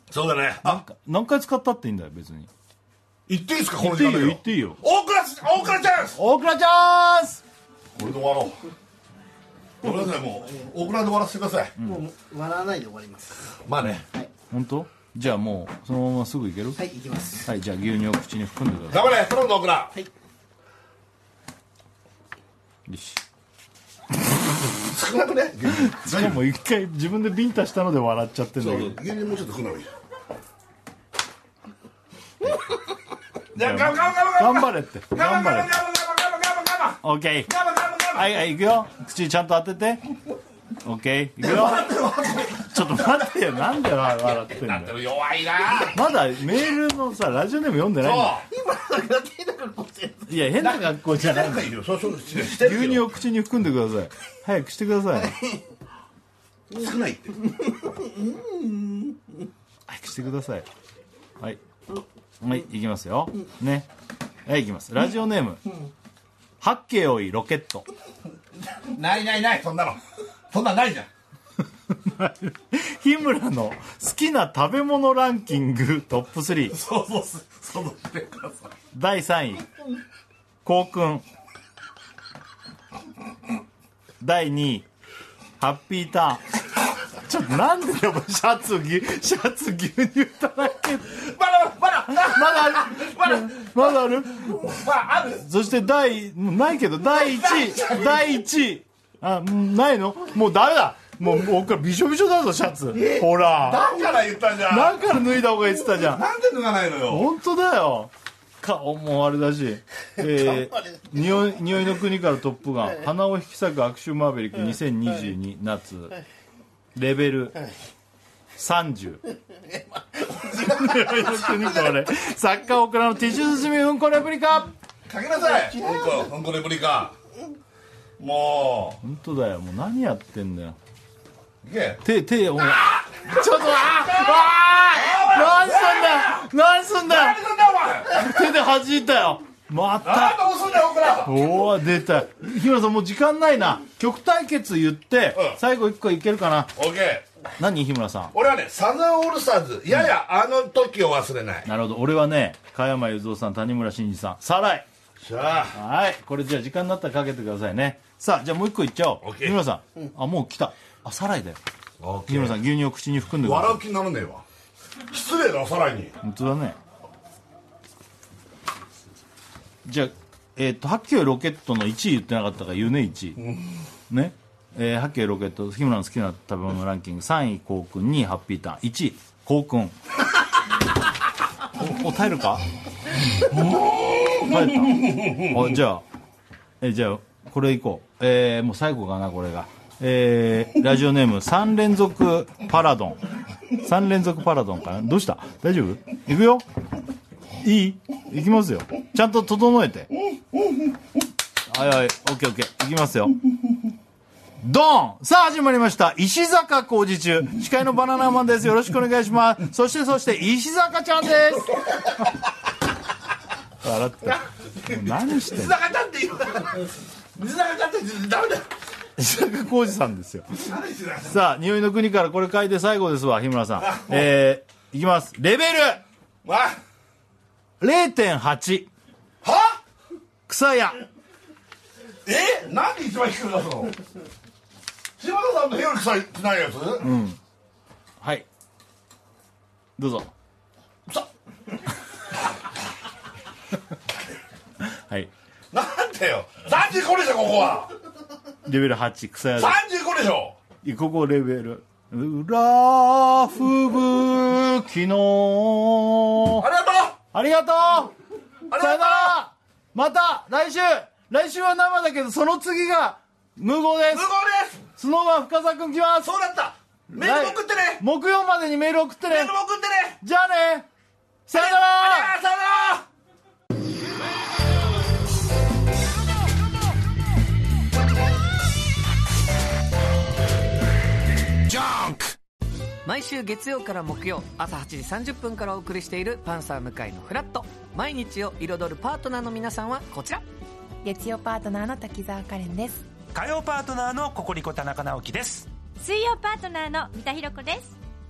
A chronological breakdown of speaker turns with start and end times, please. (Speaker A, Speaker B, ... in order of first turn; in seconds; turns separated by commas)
Speaker A: 0.1-0.8, Speaker B: 0.6-2.5, Speaker A: 3.3-6.2, Speaker B: 3.8-4.8, Speaker B: 6.2-7.4, Speaker A: 8.0-8.6, Speaker A: 9.8-11.7, Speaker C: 11.8-13.6, Speaker A: 13.6-14.0, Speaker B: 13.8-16.8, Speaker C: 16.8-17.5, Speaker B: 17.4-19.2, Speaker A: 18.9-19.9, Speaker B: 22.9-23.2, Speaker A: 24.8-26.4, Speaker B: 25.7-29.0, Speaker A: 28.6-29.9, Speaker A: 33.5-38.4, Speaker B: 33.6-35.7, Speaker B: 37.0-37.5, Speaker B: 38.1-40.0, Speaker B: 40.8-42.0, Speaker A: 41.4-43.2, Speaker B: 42.6-44.9, Speaker A: 44.1-46.0, Speaker B: 45.9-48.4, Speaker A: 48.0-48.5, Speaker C: 48.5-50.4, Speaker B: 50.3-51.7, Speaker A: 50.6-53.1, Speaker B: 52.5-55.4, Speaker A: 56.7-57.4, Speaker B: 59.9-60.7, Speaker B: 62.4-63.9, Speaker B: 64.5-65.6, Speaker B: 66.6-67.9, Speaker A: 68.7-71.1, Speaker B: 71.9-76.8, Speaker A: 76.7-78.7, Speaker B: 78.9-79.7, Speaker B: 80.6-81.2, Speaker B: 84.2-84.9, Speaker B: 85.6-86.5, Speaker B: 87.1-91.2, Speaker A: 91.1-95.5, Speaker B: 92.1-94.7, Speaker B: 95.3-103.9, Speaker A: 97.1-98.3, Speaker A: 102.9-105.0, Speaker B: 104.7-106.2, Speaker A: 105.9-107.3, Speaker B: 107.1-116.2, Speaker B: 116.9-117.6, Speaker B: 118.6-119.3, Speaker B: 120.5-124.7, Speaker A: 125.1-127.1, Speaker C: 125.5-126.2, Speaker A: 128.2-129.0, Speaker B: 129.0-130.8, Speaker A: 131.6-132.0, Speaker B: 132.0-137.4, Speaker A: 133.8-136.5, Speaker A: 137.1-138.3, Speaker B: 138.1-140.4, Speaker A: 140.0-141.4, Speaker B: 141.2-146.7, Speaker A: 145.3-145.6, Speaker A: 146.8-147.2, Speaker B: 147.6-148.3, Speaker A: 148.3-151.7, Speaker B: 151.6-154.8, Speaker A: 155.2-155.8, Speaker B: 155.7-161.6, Speaker A: 159.2-159.6, Speaker A: 162.0-162.6, Speaker B: 162.3-163.8, Speaker A: 163.4-164.4, Speaker A: 165.1-166.2, Speaker B: 166.2-166.8, Speaker B: 169.8-173.4, Speaker A: 173.4-173.7, Speaker B: 174.1-180.0, Speaker B: 181.8-182.6, Speaker A: 183.7-185.6, Speaker B: 184.4-186.0, Speaker B: 186.8-193.2, Speaker B: 193.8-196.6, Speaker B: 197.6-200.1, Speaker B: 201.7-203.4, Speaker B: 204.6-211.8, Speaker B: 213.8-215.8, Speaker A: 214.8-218.7, Speaker B: 219.2-220.5, Speaker A: 220.6-221.4, Speaker B: 221.2-226.0, Speaker A: 223.8-224.3, Speaker A: 226.4-226.8, Speaker B: 227.8-228.9, Speaker A: 229.4-229.8, Speaker B: 230.5-231.0, Speaker A: 232.2-233.9, Speaker A: 235.2-237.1, Speaker B: 237.0-237.4, Speaker B: 238.2-238.5, Speaker B: 240.0-240.3, Speaker B: 244.8-245.3, Speaker A: 245.7-247.9, Speaker B: 248.7-249.8, Speaker A: 249.5-250.6, Speaker B: 250.8-256.7, Speaker A: 256.6-257.2, Speaker B: 257.3-258.1, Speaker A: 258.7-259.4, Speaker B: 258.7-264.3, Speaker A: 264.1-264.8, Speaker B: 265.0-266.3, Speaker A: 266.2-268.0, Speaker B: 267.1-269.5, Speaker A: 269.3-270.2, Speaker B: 270.2-270.9, Speaker B: 271.5-272.3, Speaker A: 271.5-273.1, Speaker D: 283.0-290.4, Speaker E: 291.0-293.1, Speaker F: 293.3-295.7, Speaker G: 296.0-298.0